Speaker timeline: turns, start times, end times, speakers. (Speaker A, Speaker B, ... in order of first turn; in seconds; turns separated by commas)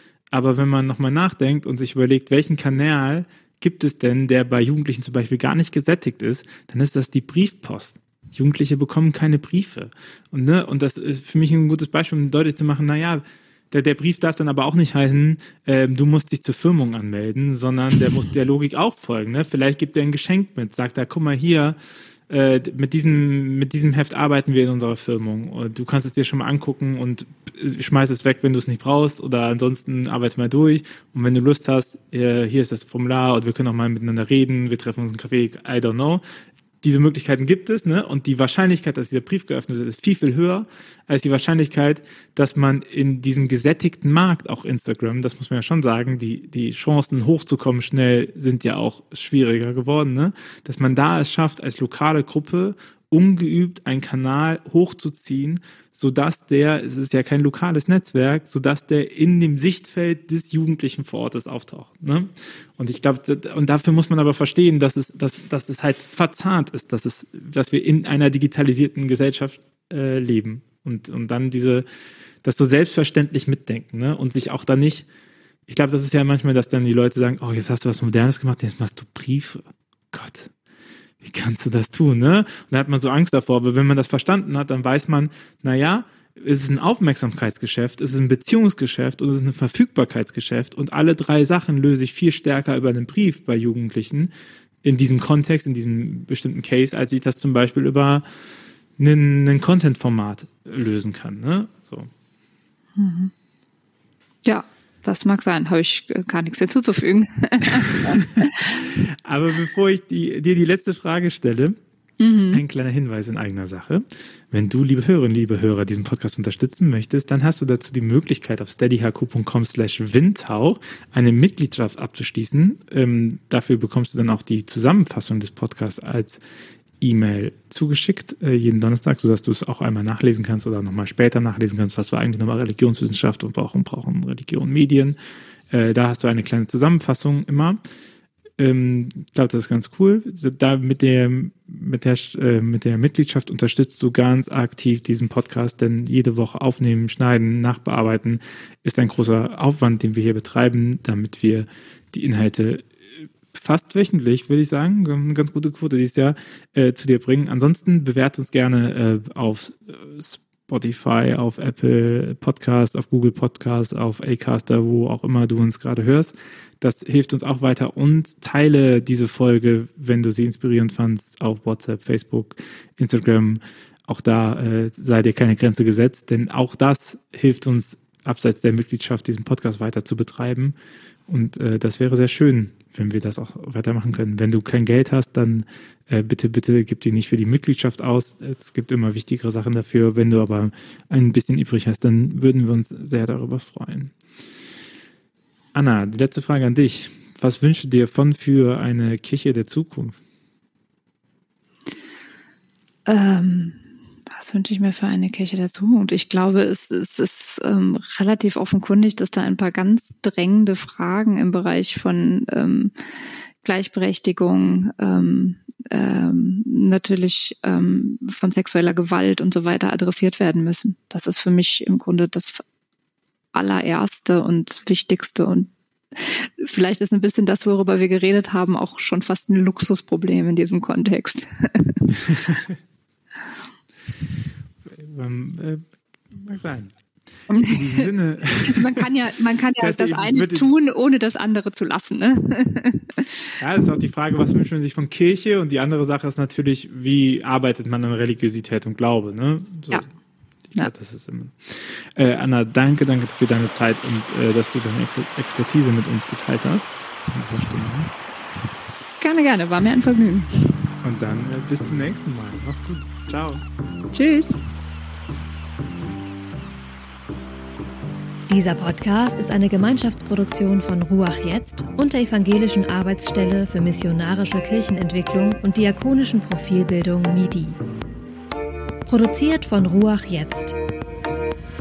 Speaker A: 0.3-21.8, Speaker A: 22.3-36.2, Speaker A: 36.8-71.9, Speaker A: 72.4-75.1, Speaker A: 75.7-80.5, Speaker A: 81.2-94.3, Speaker A: 94.8-98.2, Speaker A: 99.0-102.1, Speaker B: 103.0-103.3, Speaker B: 104.5-108.5, Speaker A: 108.1-111.8, Speaker B: 112.2-112.6, Speaker A: 112.5-126.4, Speaker A: 127.0-135.2, Speaker A: 135.7-137.8, Speaker A: 138.6-180.8, Speaker A: 181.3-194.1, Speaker A: 195.7-200.2, Speaker B: 203.1-212.9, Speaker B: 213.6-222.7, Speaker B: 223.5-232.4, Speaker A: 232.3-232.7, Speaker A: 234.9-236.9, Speaker B: 237.5-238.1, Speaker A: 237.6-239.1, Speaker B: 238.6-243.5, Speaker A: 239.8-240.7, Speaker A: 243.6-250.1, Speaker A: 250.7-258.1, Speaker B: 259.2-260.8, Speaker A: 261.0-263.6, Speaker B: 264.1-264.6, Speaker C: 268.5-277.8, Speaker C: 279.1-280.8